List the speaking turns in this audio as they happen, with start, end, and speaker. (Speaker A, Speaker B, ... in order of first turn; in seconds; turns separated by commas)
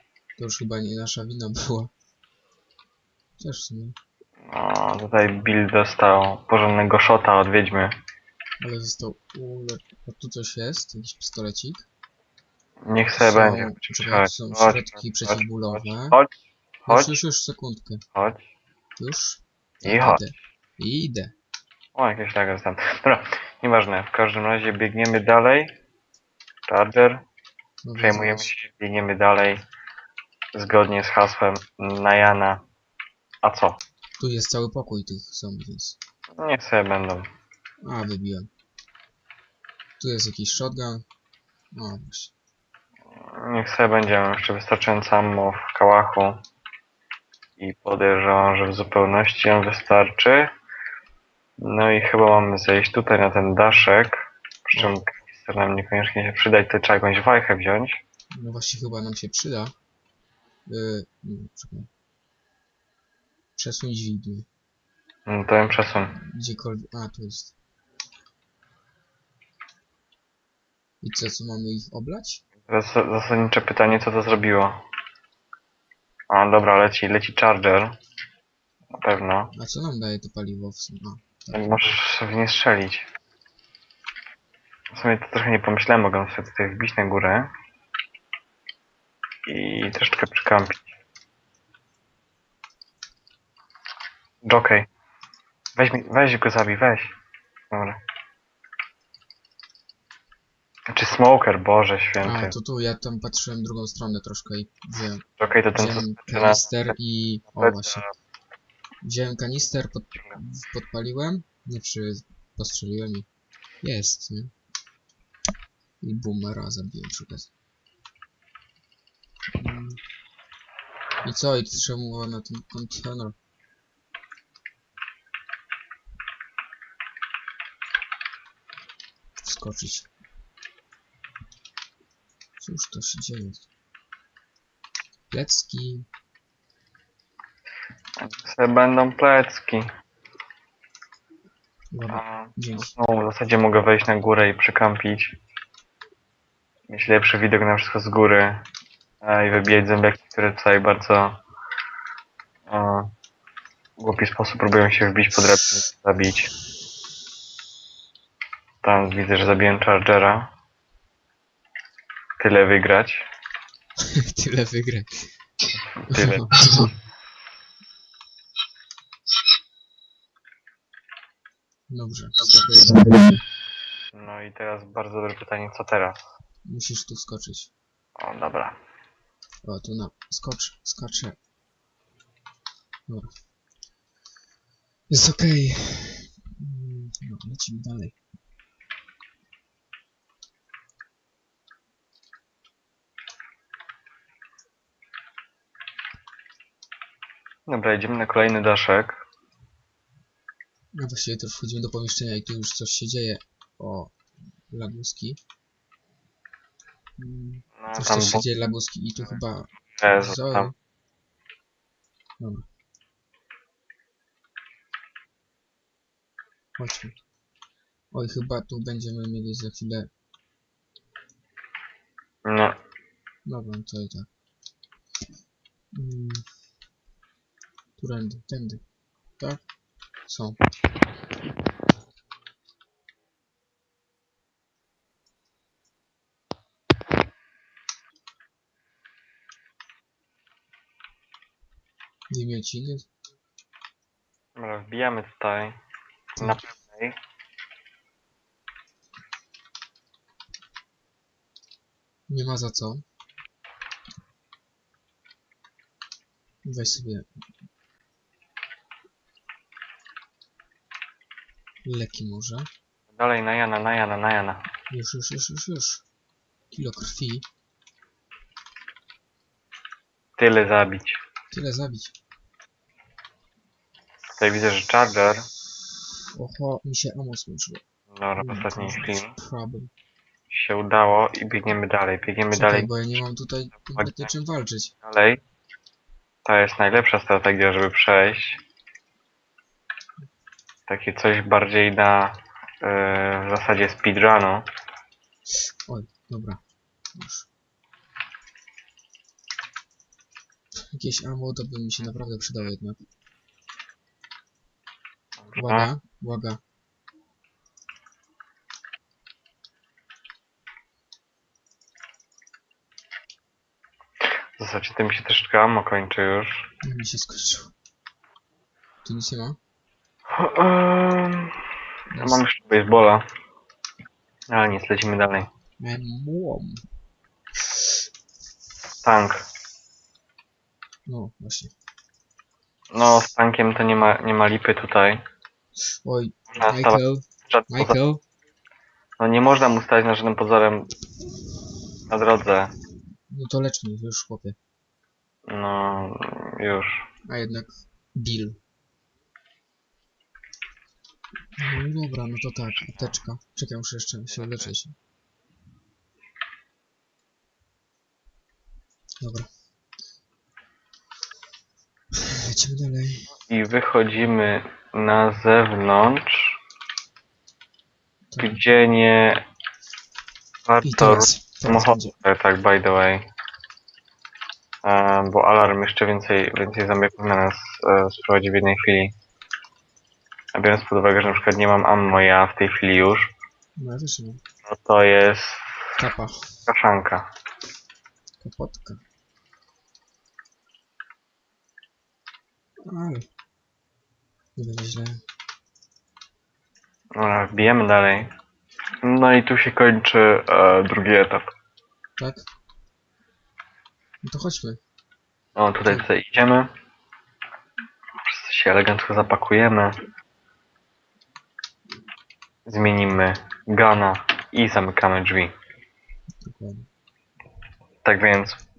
Speaker A: 0.4-1.9, Speaker A: 3.4-4.0, Speaker B: 4.5-8.0, Speaker A: 8.6-11.9, Speaker B: 12.9-16.3, Speaker A: 13.2-16.2, Speaker B: 16.9-17.2, Speaker A: 16.9-18.0, Speaker B: 18.2-18.4, Speaker A: 19.0-21.3, Speaker B: 19.8-20.2, Speaker B: 21.9-25.8, Speaker B: 26.7-27.2, Speaker A: 27.8-28.5, Speaker B: 28.0-29.6, Speaker B: 30.6-32.6, Speaker B: 33.4-33.8, Speaker A: 34.2-36.0, Speaker B: 36.4-37.3, Speaker A: 37.8-38.5, Speaker A: 40.0-41.1, Speaker A: 41.7-42.3, Speaker B: 43.3-46.4, Speaker B: 47.6-50.5, Speaker B: 51.6-58.0, Speaker A: 54.7-55.0, Speaker A: 58.3-59.7, Speaker A: 60.7-61.9, Speaker A: 63.6-64.5, Speaker B: 65.3-66.2, Speaker A: 66.2-67.5, Speaker A: 71.0-72.4, Speaker B: 72.7-74.8, Speaker B: 76.3-78.0, Speaker B: 79.0-79.5, Speaker A: 79.5-81.9, Speaker B: 81.5-83.1, Speaker B: 84.9-87.5, Speaker B: 89.5-91.0, Speaker B: 94.4-94.9, Speaker B: 95.8-97.2, Speaker B: 97.7-98.0, Speaker B: 100.9-102.5, Speaker A: 102.2-108.0, Speaker B: 105.4-106.7, Speaker B: 107.6-108.1, Speaker A: 109.0-113.3, Speaker A: 113.8-114.5, Speaker A: 116.0-117.5, Speaker A: 119.6-120.0, Speaker A: 121.2-123.3, Speaker A: 129.4-130.1, Speaker A: 132.6-133.7, Speaker A: 135.3-136.1, Speaker B: 138.2-139.9, Speaker A: 141.9-142.9, Speaker B: 142.1-145.4, Speaker B: 146.9-148.7, Speaker B: 149.2-151.4, Speaker B: 152.7-153.1, Speaker B: 154.0-156.5, Speaker B: 158.8-160.5, Speaker B: 162.4-163.2, Speaker A: 164.1-165.1, Speaker B: 166.1-166.9, Speaker A: 166.1-166.9, Speaker A: 171.9-173.4, Speaker B: 174.2-176.3, Speaker A: 176.7-177.7, Speaker B: 178.2-178.8, Speaker A: 179.7-181.4, Speaker A: 185.1-188.2, Speaker B: 197.7-199.2, Speaker A: 200.9-204.2, Speaker A: 204.7-205.4, Speaker A: 207.2-210.7, Speaker B: 207.8-208.4, Speaker B: 210.0-210.7, Speaker A: 212.4-212.7, Speaker A: 216.8-217.2, Speaker A: 218.1-220.1, Speaker B: 222.4-222.8, Speaker A: 223.5-224.3, Speaker A: 225.9-226.4, Speaker A: 228.0-228.8, Speaker A: 230.3-230.6, Speaker A: 242.3-243.1, Speaker B: 244.6-245.8, Speaker A: 246.4-246.6, Speaker B: 246.4-247.2, Speaker A: 252.3-253.0, Speaker A: 256.6-257.3, Speaker A: 261.9-262.7, Speaker B: 263.2-264.6, Speaker A: 264.9-266.1, Speaker A: 266.7-267.5, Speaker B: 270.4-271.2, Speaker A: 271.5-272.1, Speaker B: 274.4-275.5, Speaker A: 276.4-277.8, Speaker B: 278.1-279.4, Speaker A: 278.4-279.9, Speaker B: 280.5-282.9, Speaker A: 282.5-284.9, Speaker B: 284.0-284.3, Speaker B: 285.1-285.4, Speaker B: 286.4-288.6, Speaker B: 290.9-294.7, Speaker A: 295.9-296.6, Speaker A: 297.1-297.5, Speaker A: 300.9-303.0, Speaker B: 305.4-305.9, Speaker A: 305.6-306.6, Speaker B: 314.6-316.7, Speaker A: 316.8-317.7, Speaker A: 319.0-319.6, Speaker B: 320.4-321.6, Speaker A: 322.1-322.4, Speaker B: 322.2-323.2, Speaker B: 324.5-325.5, Speaker A: 325.8-326.8, Speaker B: 329.0-329.5, Speaker A: 331.1-331.7, Speaker B: 332.9-335.2, Speaker A: 336.0-338.2, Speaker B: 336.6-338.0, Speaker B: 339.2-340.9, Speaker B: 342.1-342.7, Speaker A: 343.3-344.6, Speaker B: 345.5-347.1, Speaker A: 347.3-348.6, Speaker A: 351.6-354.9, Speaker B: 352.9-353.1, Speaker B: 354.3-354.7, Speaker A: 359.2-359.5, Speaker A: 362.2-363.3, Speaker B: 363.5-366.6, Speaker A: 368.3-368.6, Speaker B: 368.4-369.4, Speaker B: 370.7-373.3, Speaker A: 370.8-372.1, Speaker B: 374.9-379.1, Speaker B: 380.6-383.4, Speaker A: 383.8-384.4, Speaker B: 384.7-385.7, Speaker A: 386.0-386.5, Speaker B: 386.7-387.3, Speaker A: 388.4-389.0, Speaker A: 392.9-393.3, Speaker A: 394.6-395.2, Speaker B: 397.2-398.3, Speaker B: 399.0-401.5, Speaker A: 402.2-402.5, Speaker A: 404.2-404.8, Speaker B: 405.6-406.7, Speaker B: 408.2-410.0, Speaker B: 412.7-415.5, Speaker A: 416.4-416.9, Speaker B: 418.0-418.6